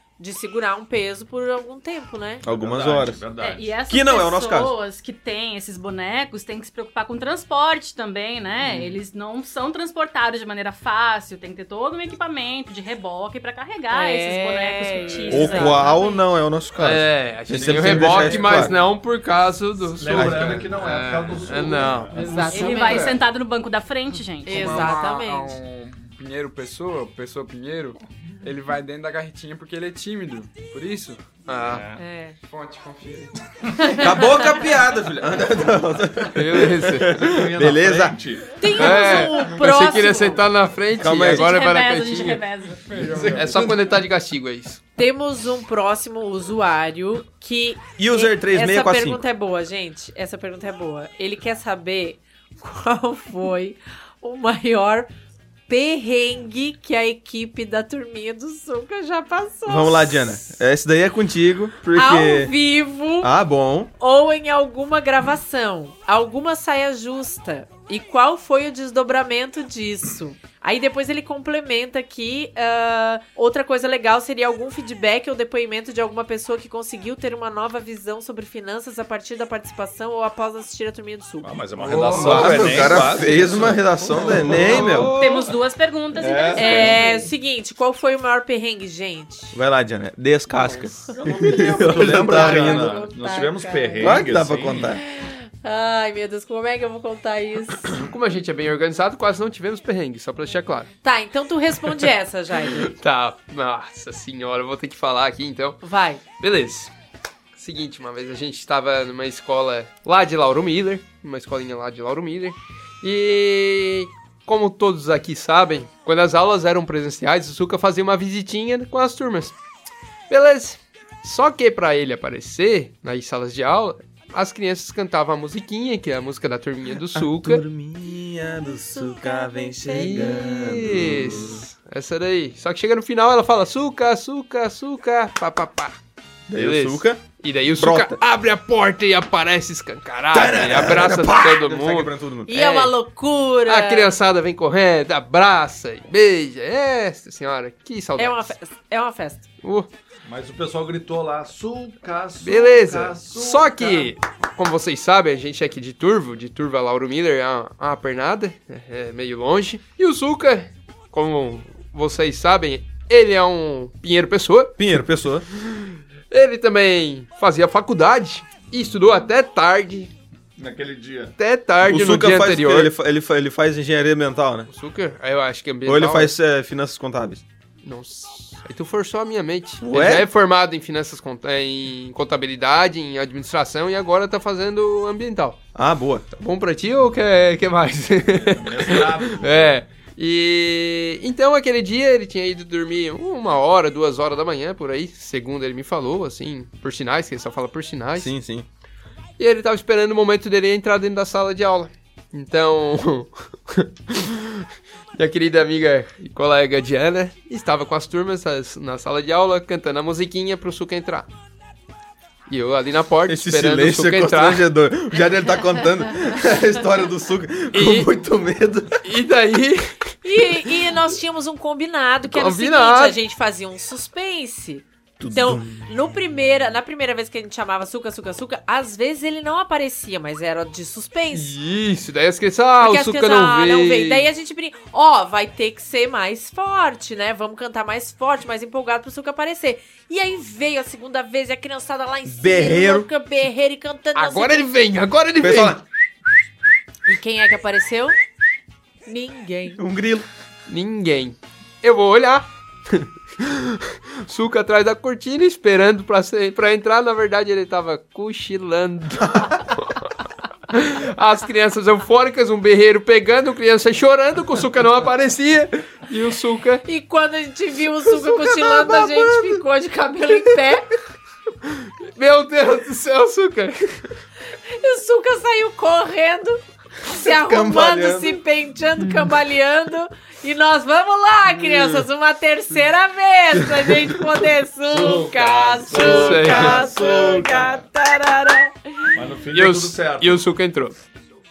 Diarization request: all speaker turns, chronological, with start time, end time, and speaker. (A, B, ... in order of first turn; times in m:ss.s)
0:00.2-0:02.4 A
0:02.4-0:03.7 B
0:02.4-0:03.2 C
0:03.4-0:16.2 D
0:03.9-0:04.7 C
0:13.9-0:15.9 A
0:15.1-0:15.4 B
0:15.3-0:18.7 C
0:16.8-0:22.1 E
0:17.5-0:18.8 B
0:19.9-0:22.5 B
0:20.1-0:20.7 C
0:22.1-0:23.1 A
0:22.1-0:23.2 F
0:22.5-0:24.9 D
0:24.4-0:25.6 A
0:24.4-0:31.4 F
0:31.5-0:31.8 E
0:31.6-0:32.0 B
0:32.0-0:32.4 A
0:32.5-0:33.4 F
0:33.8-0:34.6 A
0:34.0-0:38.2 C
0:36.3-0:37.3 E
0:37.1-0:38.9 B
0:38.6-0:40.4 A
0:38.8-0:42.4 E
0:41.0-0:41.5 C
0:41.2-0:43.0 D
0:42.7-0:43.7 F
0:43.0-0:43.8 B
0:43.3-0:44.8 E
0:45.0-0:55.1 A
0:48.0-0:49.2 C
0:55.7-1:00.5 A
0:59.6-1:02.5 C
1:01.9-1:03.3 A
1:03.2-1:03.9 C
1:04.0-1:21.5 A
1:21.4-1:25.2 B
1:21.9-1:23.4 E
1:21.9-1:25.5 F
1:22.2-1:25.1 C
1:24.7-1:25.2 E
1:25.0-1:27.2 D
1:26.1-1:27.0 B
1:26.5-1:29.6 A
1:29.5-1:32.9 C
1:31.2-1:35.0 B
1:31.4-1:34.2 A
1:32.6-1:32.9 F
1:34.0-1:35.0 C
1:34.8-1:37.9 A
1:37.9-1:40.9 E
1:41.0-1:42.9 A
1:42.7-1:45.8 E
1:45.8-1:46.2 A
1:46.4-1:46.9 E
1:47.6-1:59.6 E
2:00.3-2:07.6 E
2:07.1-2:11.6 C
2:08.9-2:10.8 A
2:09.9-2:16.0 E
2:16.5-2:17.2 C
2:16.6-2:22.9 E
2:17.8-2:18.2 C
2:20.3-2:22.5 C
2:22.5-2:24.2 A
2:23.6-2:28.5 E
2:28.2-2:29.5 A
2:29.6-2:29.9 E
2:30.2-2:34.1 B
2:32.4-2:44.9 E
2:44.8-2:45.4 C
2:45.6-2:50.1 E
2:50.6-2:51.4 B
2:51.4-2:52.9 E
2:51.8-2:54.7 C
2:54.7-2:56.3 E
2:55.8-2:57.4 C
2:57.8-3:05.6 E
2:59.8-3:00.3 C
3:05.7-3:06.3 C
3:06.4-3:18.3 E
3:08.4-3:09.8 B
3:18.2-3:18.7 C
3:19.4-3:31.3 E
3:32.5-3:34.6 E
3:33.2-3:39.1 C
3:37.7-3:38.1 E
3:39.0-3:40.1 E
3:40.2-3:51.6 A
3:42.3-3:43.2 E
3:45.2-3:45.9 C
3:51.3-3:54.3 E
3:52.8-4:04.7 A
4:02.2-4:03.1 C
4:04.1-4:05.8 E
4:05.4-4:05.8 C
4:07.1-4:08.1 A
4:09.1-4:09.8 A
4:09.8-4:10.3 C
4:10.7-4:20.1 E
4:20.7-4:26.8 E
4:26.9-4:30.9 A
4:28.1-4:29.6 C
4:31.7-4:34.1 E
4:34.6-4:49.1 A
4:37.2-4:38.4 C
4:44.9-4:47.9 B
4:45.9-4:46.9 E
4:49.1-4:50.4 B
4:49.5-4:51.0 E